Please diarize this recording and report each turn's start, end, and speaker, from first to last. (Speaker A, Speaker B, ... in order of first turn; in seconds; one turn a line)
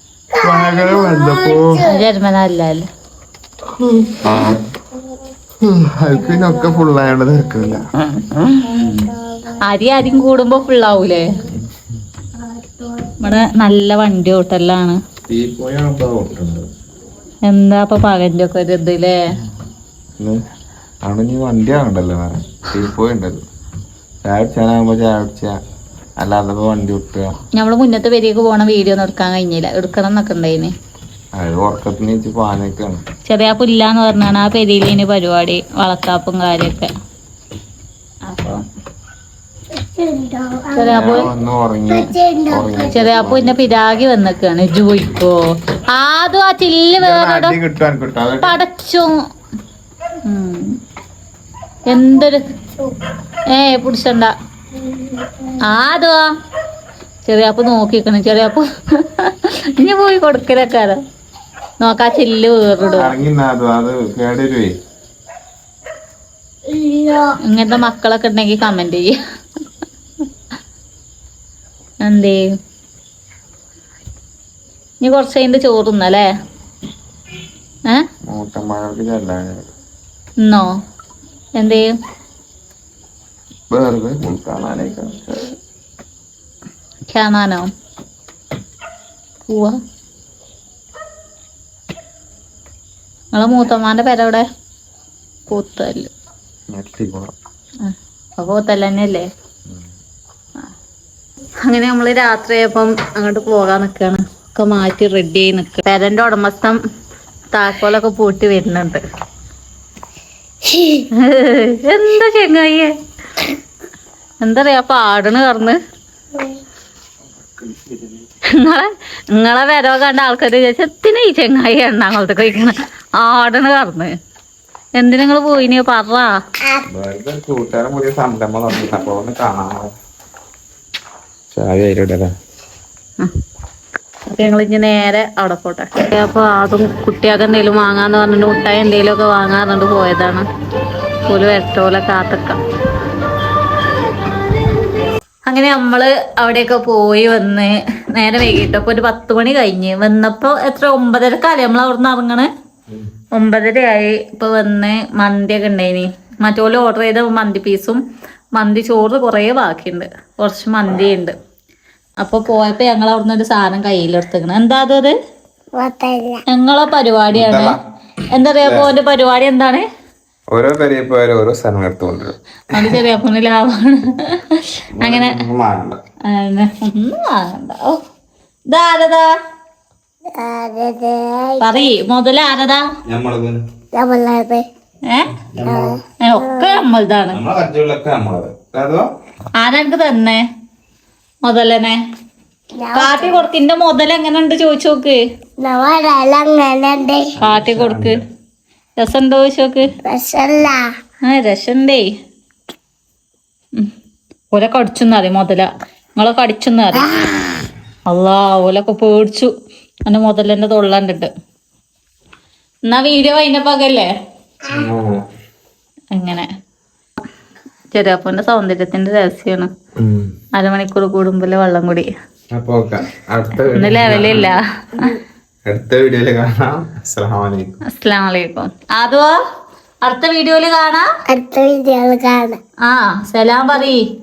Speaker A: 0.3-2.0
Speaker B: 0.4-1.8
Speaker C: 1.7-2.9
Speaker B: 3.8-4.6
Speaker B: 5.6-7.8
Speaker A: 6.1-7.8
Speaker A: 8.6-9.6
Speaker C: 9.6-11.4
Speaker A: 12.8-13.1
Speaker C: 13.2-15.0
Speaker B: 15.3-16.7
Speaker C: 17.5-19.3
Speaker B: 21.0-23.4
Speaker B: 24.2-25.5
Speaker B: 26.2-27.3
Speaker C: 27.5-30.7
Speaker B: 31.4-33.0
Speaker C: 33.2-36.9
Speaker C: 38.3-38.6
Speaker A: 39.8-41.2
Speaker C: 40.8-41.3
Speaker B: 40.9-43.7
Speaker A: 41.9-43.1
Speaker C: 42.9-45.4
Speaker C: 45.9-47.6
Speaker B: 47.0-48.6
Speaker C: 48.4-49.1
Speaker C: 50.2-50.7
Speaker C: 51.9-52.4
Speaker C: 53.5-54.3
Speaker A: 54.8-55.6
Speaker C: 55.6-56.2
Speaker C: 57.2-61.0
Speaker C: 61.8-63.1
Speaker B: 62.9-64.7
Speaker A: 66.7-67.4
Speaker C: 67.4-69.2
Speaker C: 72.0-72.5
Speaker C: 75.0-76.3
Speaker B: 78.3-79.7
Speaker C: 80.4-80.7
Speaker C: 81.6-81.9
Speaker B: 83.7-85.6
Speaker C: 87.1-87.7
Speaker C: 89.5-89.8
Speaker C: 93.3-94.4
Speaker C: 95.5-96.1
Speaker B: 96.7-97.3
Speaker C: 97.8-99.3
Speaker C: 101.6-106.8
Speaker C: 107.5-109.0
Speaker A: 110.7-111.0
Speaker C: 111.1-112.9
Speaker C: 114.4-115.8
Speaker B: 117.5-118.2
Speaker C: 118.5-124.1
Speaker C: 125.0-126.3
Speaker B: 126.9-129.9
Speaker B: 131.5-132.3
Speaker C: 134.3-140.4
Speaker C: 141.3-142.6
Speaker C: 145.5-152.5
Speaker C: 153.3-158.0
Speaker C: 158.6-161.3
Speaker C: 162.2-165.1
Speaker A: 165.8-166.4
Speaker C: 166.5-167.8
Speaker B: 167.3-167.8
Speaker C: 168.3-169.8
Speaker B: 168.6-168.9
Speaker B: 170.5-173.0
Speaker C: 172.7-175.4
Speaker B: 174.9-176.0
Speaker C: 176.3-178.0
Speaker C: 178.7-179.3
Speaker A: 180.3-181.9
Speaker C: 181.6-182.8
Speaker B: 183.1-183.6
Speaker A: 183.9-184.7
Speaker B: 185.5-186.0
Speaker A: 185.6-186.8
Speaker C: 186.2-187.4
Speaker B: 187.3-189.1
Speaker C: 189.6-190.4
Speaker C: 191.4-192.0
Speaker A: 192.8-193.4
Speaker C: 192.9-195.2
Speaker A: 195.6-197.3
Speaker B: 197.4-198.2
Speaker C: 197.4-198.2
Speaker C: 199.0-199.9
Speaker A: 200.0-200.8
Speaker C: 201.2-202.1
Speaker C: 204.5-207.2
Speaker C: 208.1-209.5
Speaker C: 210.1-211.3
Speaker C: 212.9-214.1
Speaker B: 214.7-215.2
Speaker C: 216.1-216.5
Speaker C: 217.9-219.7
Speaker B: 220.0-220.3
Speaker C: 220.6-222.1
Speaker B: 222.5-224.6
Speaker C: 223.6-225.2
Speaker B: 225.7-227.8
Speaker C: 227.9-229.3
Speaker C: 230.0-231.1
Speaker A: 231.3-232.6
Speaker C: 232.8-234.0